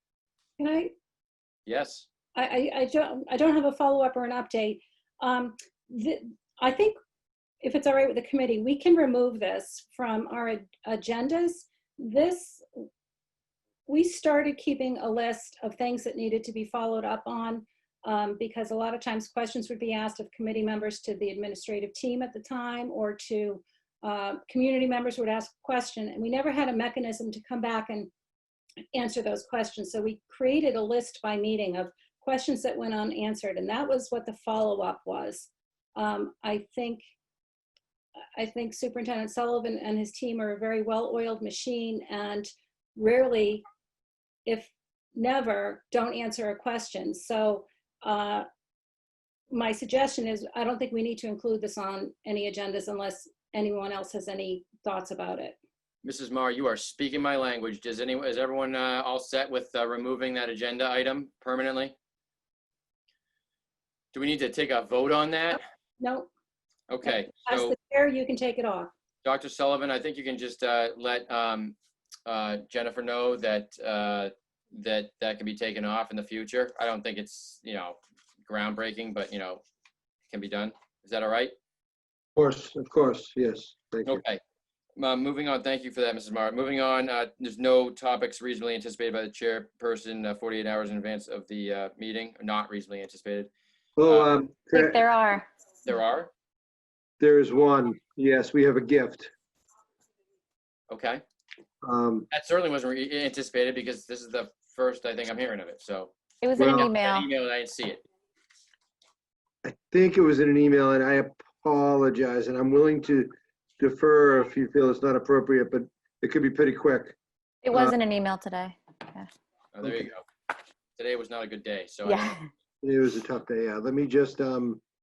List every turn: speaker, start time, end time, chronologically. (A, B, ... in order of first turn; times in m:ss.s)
0:00.6-0:00.9 A
0:01.6-0:02.1 B
0:02.4-0:06.9 A
0:07.6-0:12.6 A
0:13.9-0:28.1 A
0:28.9-0:37.0 A
0:38.4-0:43.6 A
0:44.4-0:48.4 A
0:49.5-0:55.6 A
0:56.0-1:01.9 B
1:04.1-1:05.6 B
1:06.0-1:06.3 A
1:06.9-1:07.8 B
1:07.0-1:08.9 A
1:09.2-1:19.6 B
1:20.3-1:21.5 B
1:22.4-1:24.2 C
1:24.0-1:24.4 B
1:25.0-1:33.5 B
1:34.0-1:35.0 C
1:34.0-1:34.3 B
1:34.7-1:35.4 D
1:35.8-1:36.3 B
1:37.2-1:39.3 C
1:40.9-1:41.2 B
1:41.8-1:42.3 C
1:42.3-1:48.0 B
1:46.4-1:47.3 D
1:46.6-1:46.9 C
1:49.6-1:57.2 C
1:57.6-1:59.3 D
1:57.7-1:58.0 C
1:59.7-2:00.2 B
1:59.8-2:00.1 C
2:01.0-2:02.4 B
2:02.0-2:02.4 D
2:02.8-2:04.8 C